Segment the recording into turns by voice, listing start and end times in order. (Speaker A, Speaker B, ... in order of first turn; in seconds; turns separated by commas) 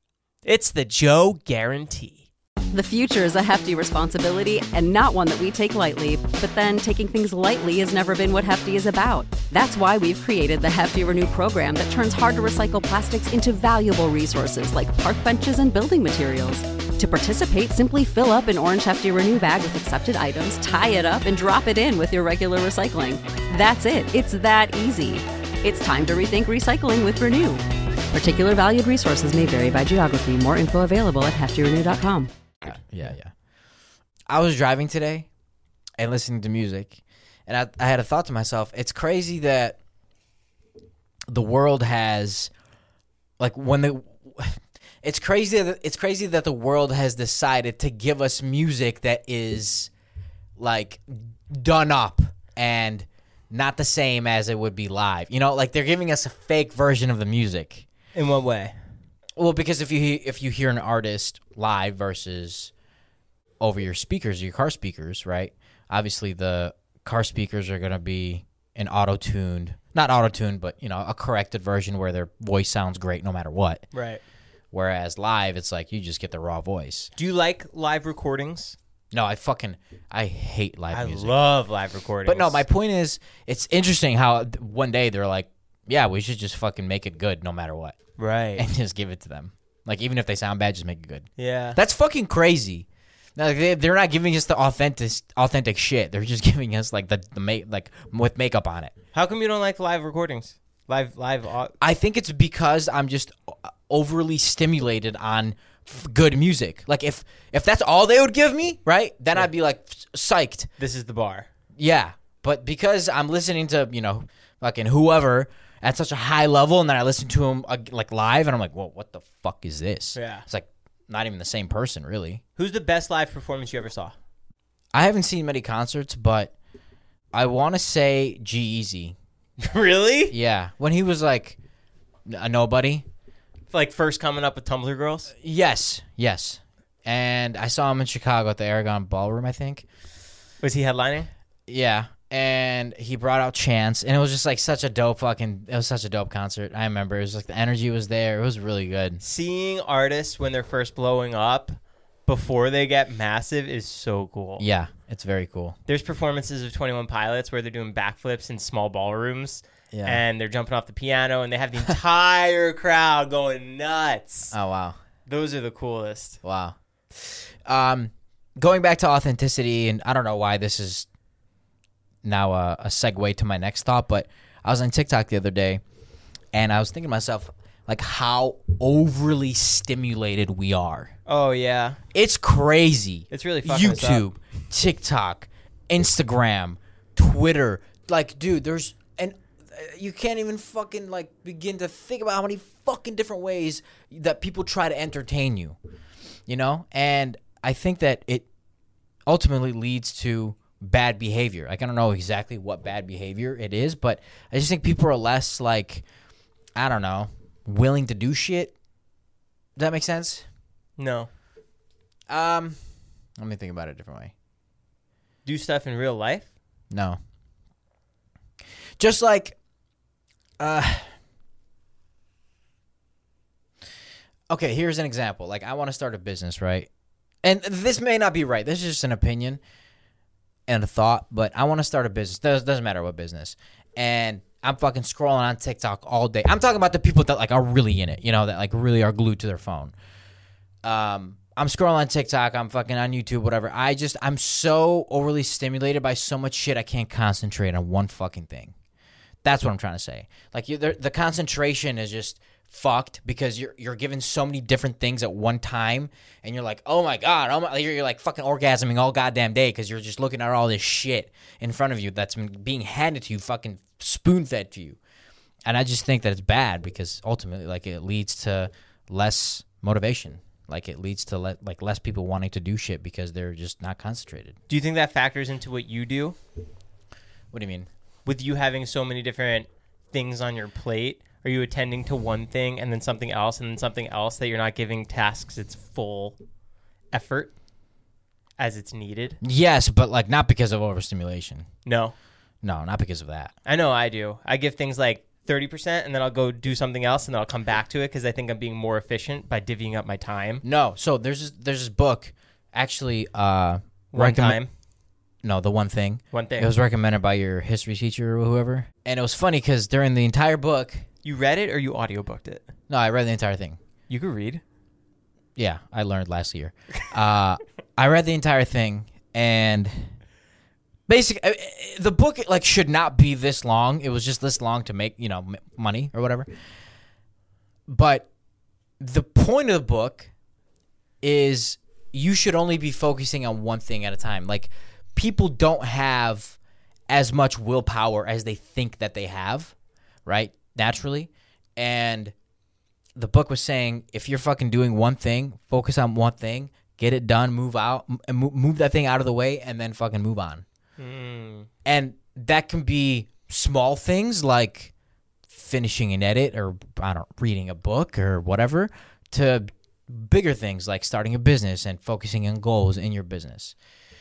Speaker A: 0.5-2.3, Speaker B: 2.7-32.3, Speaker C: 32.6-33.3, Speaker C: 34.3-35.3, Speaker C: 36.0-39.8, Speaker C: 41.3-42.5, Speaker C: 43.4-49.9, Speaker C: 50.6-57.9, Speaker A: 58.1-58.7, Speaker C: 59.4-62.7, Speaker C: 63.6-73.8, Speaker A: 73.9-74.2, Speaker C: 74.7-77.1, Speaker A: 77.2-78.8, Speaker C: 79.1-81.4, Speaker A: 80.9-82.6, Speaker C: 82.3-88.0, Speaker A: 88.2-88.7, Speaker C: 88.6-99.0, Speaker A: 91.4-91.8, Speaker A: 99.1-101.8, Speaker C: 101.8-110.7, Speaker A: 110.8-111.5, Speaker C: 111.8-122.4, Speaker A: 120.2-120.5, Speaker A: 122.6-124.1, Speaker C: 124.9-126.5, Speaker C: 127.3-129.2, Speaker A: 129.6-130.3, Speaker C: 130.3-131.6, Speaker C: 132.3-133.1, Speaker A: 133.7-135.3, Speaker C: 135.3-139.9, Speaker A: 140.6-141.3, Speaker C: 141.7-149.2, Speaker A: 149.2-154.7, Speaker C: 154.6-155.8, Speaker A: 155.9-164.5, Speaker C: 159.9-160.2, Speaker C: 164.5-165.0, Speaker A: 165.3-166.4, Speaker C: 166.4-171.1, Speaker C: 172.2-175.8, Speaker C: 176.5-181.1, Speaker A: 181.3-182.0, Speaker C: 182.1-195.8, Speaker A: 183.3-184.3, Speaker C: 196.5-198.5, Speaker C: 199.3-206.0, Speaker C: 206.8-208.7, Speaker C: 209.8-210.4, Speaker A: 211.0-211.3, Speaker C: 212.3-212.8, Speaker C: 213.4-214.3, Speaker A: 215.4-216.5, Speaker C: 216.9-217.2, Speaker C: 219.0-219.6, Speaker C: 220.6-221.1, Speaker C: 224.5-226.9, Speaker C: 227.4-229.6, Speaker C: 230.7-239.9, Speaker C: 240.8-248.8, Speaker C: 249.4-265.0, Speaker C: 265.7-274.6, Speaker A: 274.7-276.4, Speaker C: 277.5-277.9, Speaker A: 278.3-286.4, Speaker A: 287.1-287.5, Speaker A: 288.6-289.4, Speaker C: 289.4-291.7, Speaker A: 291.9-292.1, Speaker C: 292.6-293.5, Speaker A: 293.7-300.6, Speaker C: 300.6-304.6, Speaker A: 304.1-304.7, Speaker C: 305.4-311.1, Speaker A: 306.3-306.7, Speaker A: 311.2-312.7, Speaker C: 312.9-313.8, Speaker A: 314.1-314.6, Speaker C: 315.6-320.1, Speaker C: 321.1-326.5, Speaker C: 327.9-328.3, Speaker C: 329.0-330.3, Speaker C: 331.2-336.6, Speaker C: 337.1-339.7, Speaker C: 340.3-342.3, Speaker C: 343.2-350.6, Speaker A: 351.0-351.7, Speaker C: 351.9-354.9, Speaker C: 355.5-363.8